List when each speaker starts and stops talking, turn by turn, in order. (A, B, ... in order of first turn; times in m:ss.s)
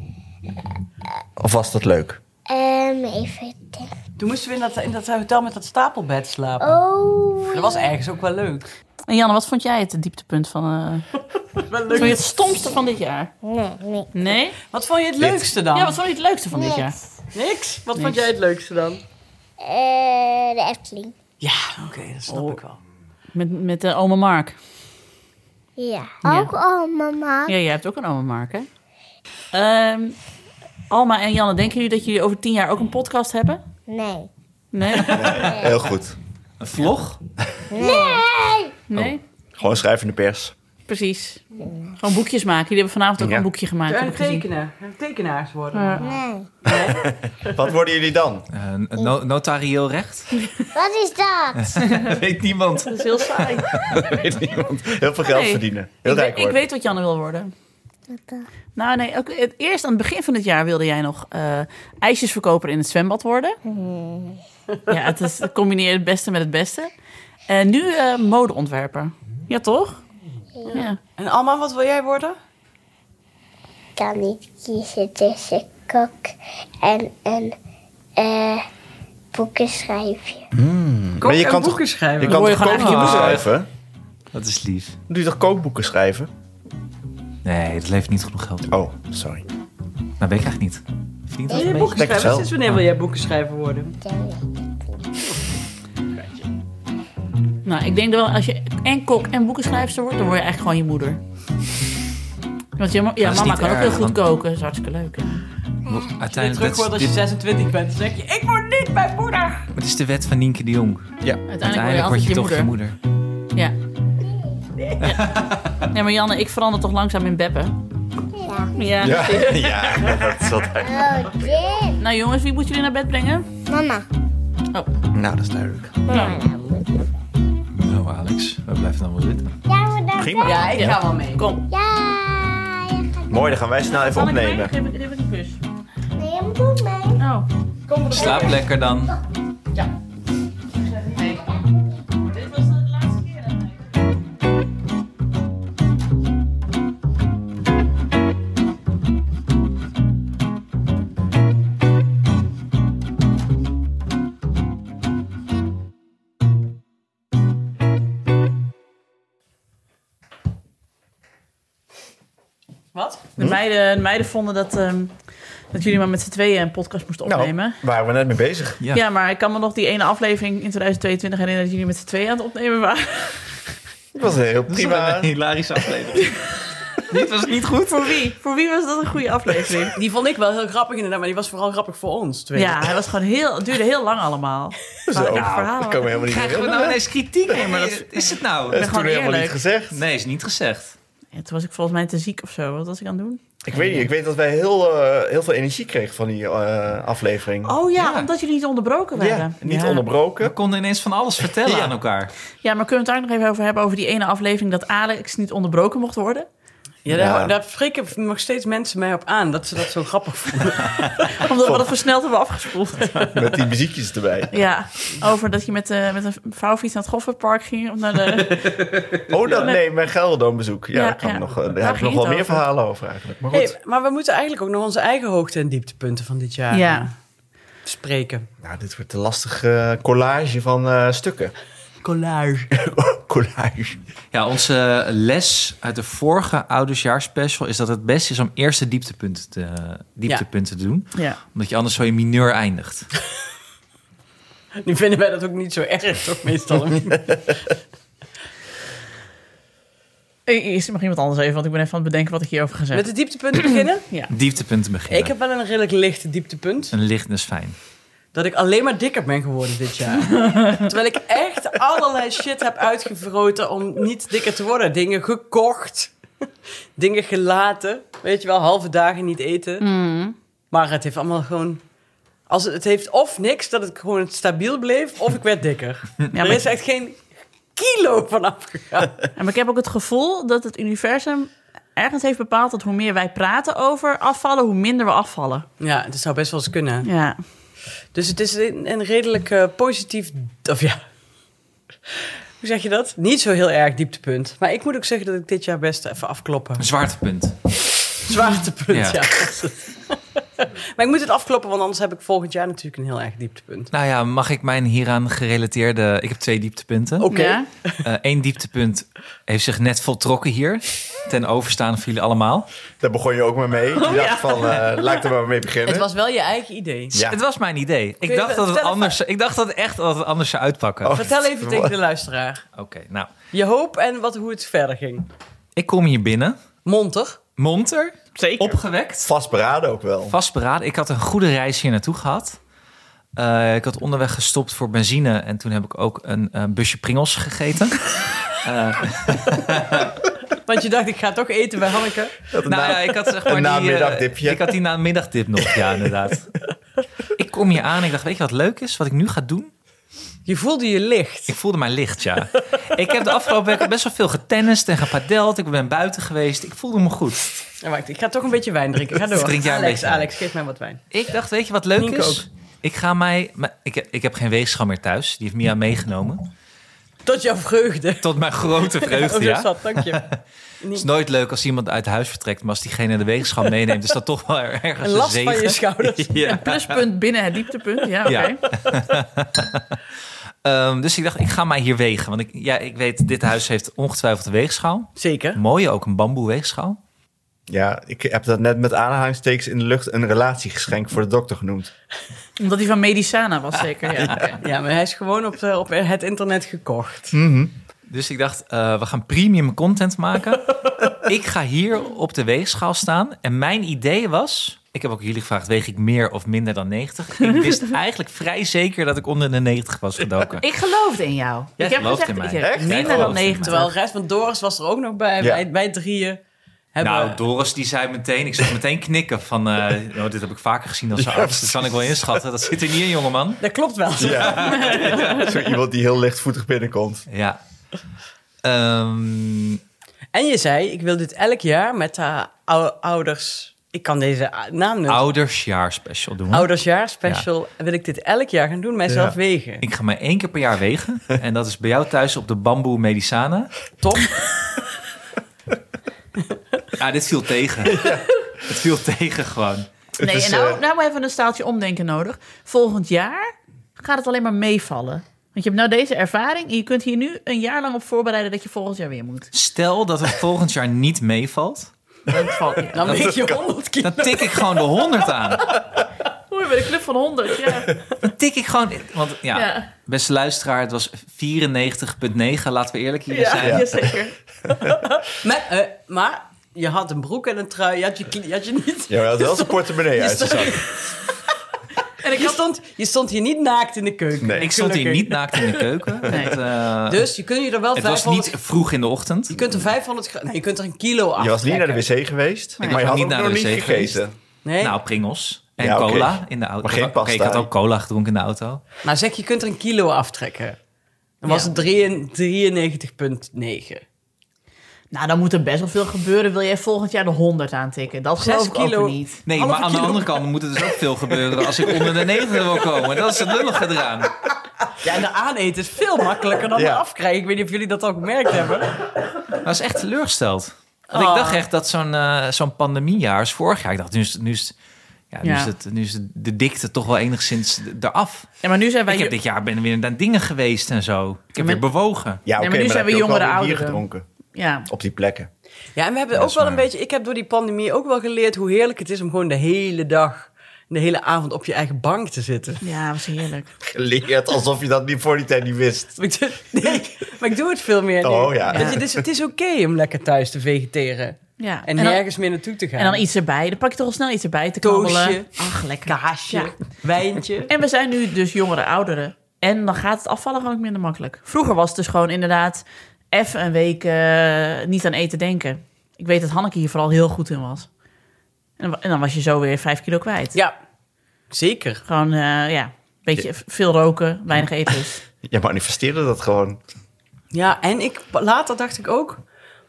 0:01.4-0:02.2 A
0:02.5-0:03.9 B
0:04.2-0:06.8 C
0:06.6-0:07.9 B
0:07.5-0:08.6 C
0:09.1-0:11.1 D
0:11.6-0:12.2 C
0:11.9-0:13.3 D
0:13.4-0:14.1 B
0:14.1-0:14.6 D
0:14.7-0:16.0 C
0:15.2-0:15.5 A
0:15.7-0:17.0 D
0:16.5-0:17.0 B
0:17.3-0:19.0 C
0:18.0-0:18.3 D
0:19.6-0:21.1 B
0:21.4-0:22.8 C
0:22.3-0:22.6 D
0:23.3-0:24.6 D
0:25.8-0:27.5 B
0:26.2-0:26.5 D
0:27.5-0:28.7 D
0:29.5-0:30.2 D
0:30.9-0:33.6 D
0:33.9-0:34.3 B
0:34.7-0:35.5 D
0:35.1-0:36.2 A
0:35.4-0:35.7 B
0:36.6-0:37.2 E
0:37.7-0:38.8 B
0:37.8-0:38.1 D
0:38.9-0:39.2 D
0:39.6-0:40.5 A
0:40.9-0:41.4 D
0:42.0-0:44.4 D
0:43.2-0:43.5 A
0:43.9-0:47.6 C
0:45.7-0:46.0 D
0:46.0-0:46.6 B
0:47.0-0:48.5 A
0:48.5-0:50.5 E
0:50.7-0:51.8 B
0:51.6-0:53.0 E
0:51.8-0:52.2 D
0:52.8-0:53.7 D
0:53.6-0:54.1 E
0:53.9-0:56.6 A
0:55.2-0:57.5 D
0:58.1-0:58.4 B
0:58.8-1:03.6 D
1:03.6-1:04.4 B
1:04.9-1:06.9 D
1:07.5-1:10.0 D
1:10.7-1:12.4 C
1:10.7-1:11.0 D
1:14.0-1:17.5 B
1:18.2-1:18.6 B
1:19.3-1:20.5 B
1:20.5-1:23.7 A
1:21.2-1:22.6 C
1:22.2-1:23.4 D
1:22.6-1:23.5 E
1:24.3-1:25.0 E
1:25.1-1:26.3 A
1:27.4-1:28.8 E
1:28.7-1:29.4 A
1:30.2-1:32.8 E
1:31.5-1:33.9 C
1:31.5-1:31.8 B
1:31.9-1:32.5 A
1:34.0-1:35.0 B
1:36.1-1:36.4 C
1:37.6-1:41.2 D
1:42.8-1:45.4 D
1:43.2-1:44.2 E
1:45.8-1:47.2 E
1:46.3-1:49.7 C
1:49.7-1:53.0 E
1:51.5-1:52.7 D
1:55.0-1:57.7 D
1:58.3-1:59.0 B
1:58.8-2:00.3 D
1:59.0-2:01.4 A
2:00.8-2:02.0 B
2:02.0-2:03.4 D
2:03.7-2:04.0 B
2:05.1-2:06.1 A
2:06.0-2:07.0 B
2:06.1-2:06.4 D
2:07.8-2:09.5 E
2:09.7-2:10.9 B
2:10.2-2:10.9 A
2:10.4-2:11.5 C
2:10.4-2:11.6 D
2:11.7-2:13.3 B
2:13.3-2:14.7 A
2:13.8-2:15.6 D
2:16.2-2:17.2 B
2:17.2-2:17.4 D
2:17.9-2:18.7 C
2:18.1-2:19.2 E
2:20.9-2:21.6 D
2:21.2-2:22.0 B
2:22.3-2:23.9 D
2:42.9-2:43.3 C
2:43.4-2:45.1 D
2:45.7-2:47.8 D
2:47.2-2:48.8 A
2:48.9-2:53.6 D
2:54.1-2:55.3 A
2:54.7-2:57.7 E
2:57.1-3:00.0 D
2:59.9-3:02.9 C
3:02.5-3:06.3 D
3:05.1-3:07.0 A
3:05.3-3:08.9 E
3:07.5-3:09.6 D
3:08.7-3:10.0 A
3:09.9-3:11.0 E
3:11.3-3:13.4 D
3:13.6-3:17.8 A
3:17.6-3:20.0 D
3:18.0-3:18.3 E
3:19.2-3:20.6 A
3:20.4-3:22.3 E
3:21.6-3:21.9 A
3:22.6-3:26.5 D
3:27.0-3:31.4 C
3:27.1-3:27.5 A
3:31.4-3:33.4 D
3:33.2-3:34.6 A
3:34.5-3:39.8 D
3:39.2-3:43.7 A
3:40.9-3:42.6 D
3:43.5-3:47.1 C
3:46.7-3:47.1 D
3:47.8-3:48.5 C
3:48.6-3:51.5 A
3:52.0-3:52.7 C
3:52.7-3:54.0 A
3:54.3-4:03.1 E
4:04.8-4:07.5 C
4:10.5-4:14.3 D
4:12.9-4:14.1 C
4:14.3-4:15.3 E
4:15.1-4:16.9 C
4:16.9-4:17.8 E
4:18.3-4:26.1 C
4:20.6-4:20.8 D
4:27.0-4:29.9 C
4:29.8-4:30.3 D
4:30.7-4:31.8 C
4:32.5-4:39.2 C
4:36.3-4:36.6 D
4:39.4-4:45.6 D
4:45.8-4:47.1 C
4:47.0-4:47.4 D
4:48.1-4:51.0 C
4:52.6-4:56.8 C
4:56.8-4:58.2 E
4:58.2-5:03.9 C
4:58.9-4:59.2 E
5:03.9-5:07.3 E
5:07.2-5:08.0 C
5:07.3-5:07.7 D
5:08.0-5:12.7 E
5:13.0-5:16.1 A
5:14.0-5:15.2 D
5:15.8-5:17.1 C
5:17.1-5:17.4 A
5:17.2-5:21.3 E
5:18.2-5:19.2 C
5:21.0-5:22.0 A
5:21.1-5:22.6 C
5:22.8-5:23.3 E
5:23.5-5:25.3 C
5:25.8-5:26.6 E
5:26.8-5:27.4 C
5:27.6-5:29.3 E
5:28.4-5:28.7 D
5:29.2-5:30.4 A
5:30.3-5:32.6 E
5:33.4-5:40.1 E
5:40.6-5:42.5 C
5:42.5-5:44.7 A
5:42.6-5:46.6 E
5:47.3-5:49.7 E
5:50.4-5:51.5 C
5:51.5-5:57.5 E
5:57.8-6:01.0 C
5:59.2-6:00.3 E
6:01.1-6:06.5 E
6:02.0-6:02.4 C
6:07.2-6:10.2 C
6:08.2-6:10.4 E
6:10.9-6:17.0 E
6:15.0-6:16.4 C
6:16.4-6:18.6 D
6:18.2-6:20.0 E
6:20.6-6:27.0 E
6:25.2-6:25.6 C
6:27.7-6:31.9 A
6:32.6-6:34.6 D
6:34.6-6:37.3 C
6:37.3-6:37.7 A
6:38.1-6:50.6 E
6:50.6-6:53.9 D
6:51.8-6:53.9 E
6:52.6-6:53.4 A
6:52.8-6:56.4 C
6:55.4-6:55.6 A
6:56.9-6:57.4 C
6:57.0-7:03.6 E
7:01.2-7:02.4 A
7:03.6-7:05.4 C
7:04.2-7:07.3 A
7:04.2-7:05.5 E
7:04.9-7:05.3 D
7:07.3-7:07.6 E
7:08.6-7:09.8 E
7:10.3-7:15.2 C
7:15.1-7:17.4 E
7:16.5-7:19.8 C
7:19.1-7:19.4 A
7:19.8-7:23.7 E
7:24.0-7:24.4 C
7:27.0-7:29.9 E
7:30.2-7:39.5 D
7:30.2-7:30.8 A
7:39.5-7:41.9 E
7:42.3-7:43.2 D
7:42.3-7:43.6 A
7:42.9-7:44.8 C
7:44.0-7:45.8 E
7:46.5-7:47.9 D
7:48.2-7:53.9 E
7:49.5-7:49.9 D
7:53.3-7:54.3 D
7:53.6-7:54.1 A
7:55.3-8:01.2 C
7:59.1-8:00.8 A
8:02.2-8:02.6 D
8:02.2-8:05.8 C
8:04.4-8:04.7 A
8:04.6-8:07.3 E
8:06.3-8:06.5 D
8:07.1-8:08.6 C
8:07.9-8:09.8 E
8:09.5-8:12.0 C
8:11.4-8:14.3 A
8:12.8-8:14.2 E
8:14.6-8:15.0 C
8:14.8-8:18.8 E
8:15.8-8:17.7 A
8:19.0-8:20.8 C
8:21.4-8:24.0 C
8:21.4-8:21.7 D
8:25.1-8:29.4 D
8:28.4-8:30.2 C
8:29.4-8:34.3 E
8:35.0-8:39.0 C
8:36.7-8:37.0 A
8:39.6-8:44.7 E
8:41.1-8:41.6 C
8:45.3-8:48.5 E
8:45.4-8:45.7 D
8:48.6-8:49.3 D
8:49.1-8:52.4 E
8:51.6-8:51.8 D
8:52.4-8:54.2 A
8:52.6-8:54.0 D
8:54.5-8:54.9 D
8:54.9-8:55.5 A
8:56.0-9:02.8 C
8:56.3-8:56.8 E
9:02.8-9:03.7 D
9:03.8-9:06.2 A
9:06.2-9:13.2 C
9:08.2-9:09.2 A
9:08.7-9:09.0 D
9:11.6-9:12.2 D
9:13.0-9:16.7 D
9:14.8-9:15.5 C
9:16.0-9:17.7 C
9:17.7-9:27.9 D
9:28.8-9:30.6 D
9:31.5-9:32.0 C
9:32.0-9:35.2 D
9:35.4-9:36.8 A
9:37.5-9:39.4 C